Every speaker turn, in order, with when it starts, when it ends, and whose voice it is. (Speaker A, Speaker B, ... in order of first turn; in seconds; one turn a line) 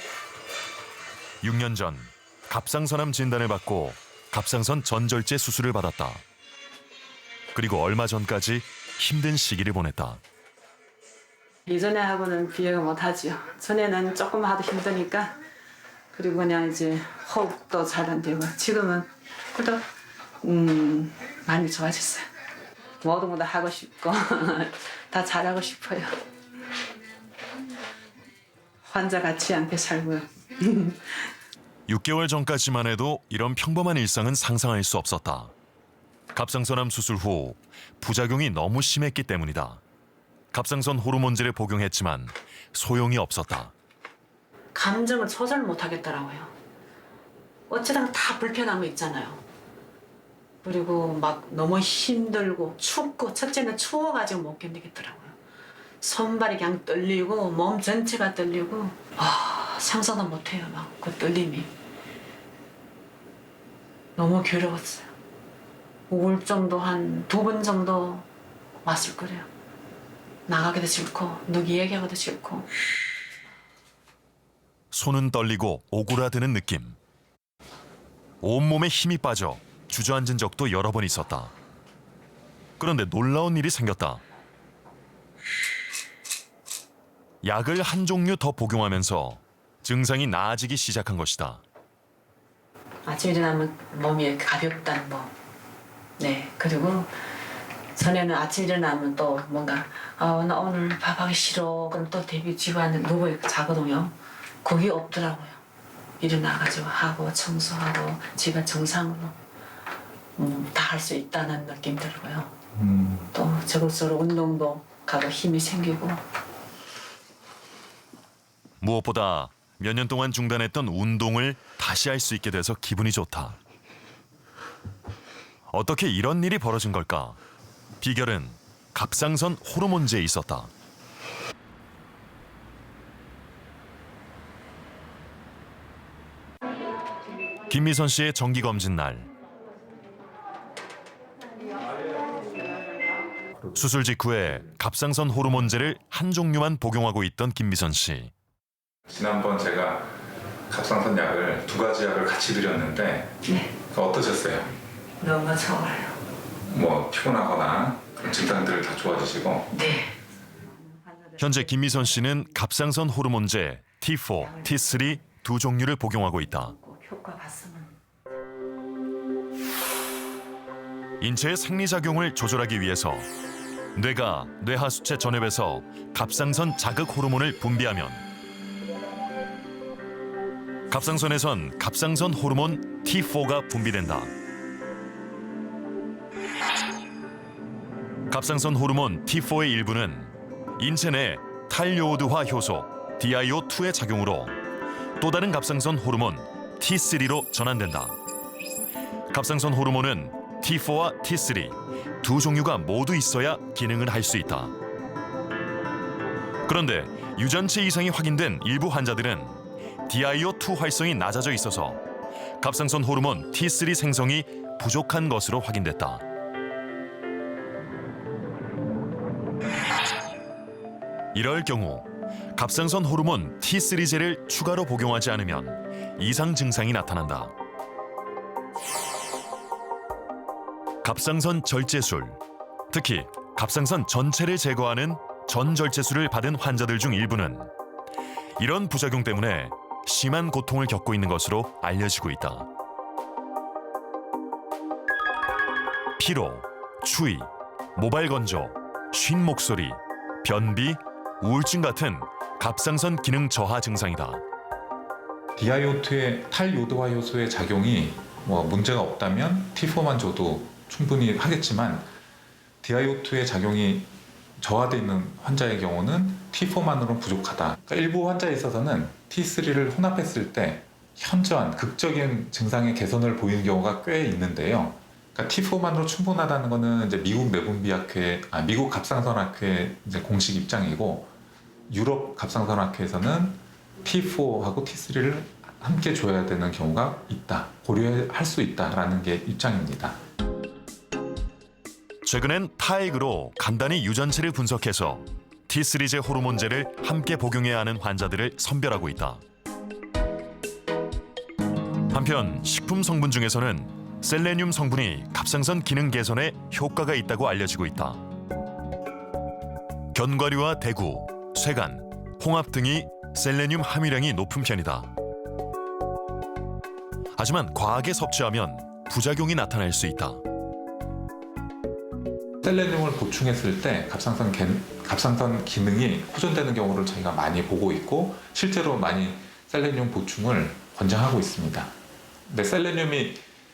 Speaker A: 1.4-6.2
Speaker A: 7.5-10.2
Speaker B: 11.7-15.4
Speaker B: 16.1-19.8
Speaker B: 20.4-22.2
Speaker B: 23.0-26.1
Speaker B: 28.8-31.0
Speaker A: 31.9-35.5
Speaker A: 36.3-39.8
Speaker A: 40.5-43.7
Speaker B: 44.7-46.5
Speaker B: 47.7-49.4
Speaker B: 50.6-55.4
Speaker B: 56.0-61.7
Speaker B: 64.2-65.1
Speaker B: 66.1-68.2
Speaker B: 68.8-69.5
Speaker B: 70.5-72.7
Speaker A: 74.9-77.0
Speaker A: 78.4-81.5
Speaker A: 82.8-84.2
Speaker A: 87.4-91.6
Speaker B: 93.0-95.3
Speaker B: 96.2-97.1
Speaker B: 97.9-105.6
Speaker B: 106.2-109.4
Speaker B: 110.3-112.5
Speaker C: 112.8-113.3
Speaker B: 113.3-116.2
Speaker A: 118.8-123.6
Speaker A: 125.7-127.4
Speaker A: 128.0-130.7
Speaker A: 137.7-139.3
Speaker A: 143.7-148.3
Speaker C: 149.1-150.2
Speaker C: 150.7-153.3
Speaker B: 153.4-153.7
Speaker C: 153.9-154.7
Speaker B: 155.2-156.2
Speaker C: 156.7-159.7
Speaker B: 159.7-160.2
Speaker A: 161.4-166.7
Speaker B: 166.6-167.9
Speaker A: 171.2-173.3
Speaker A: 173.9-178.2
Speaker A: 180.9-184.3
Speaker A: 188.3-194.6
Speaker A: 195.2-198.2
Speaker A: 199.3-204.7
Speaker A: 206.6-212.0
Speaker A: 212.6-216.2
Speaker A: 221.3-227.5
Speaker A: 231.0-237.7
Speaker A: 238.6-242.7
Speaker A: 246.2-254.4
Speaker C: 255.6-262.1
Speaker C: 262.8-281.3
Speaker C: 281.9-290.2
Speaker A: 292.2-299.4
Speaker A: 302.1-308.2
Speaker A: 310.1-315.1
Speaker A: 317.4-320.4
Speaker C: 322.6-331.9
Speaker C: 332.5-333.4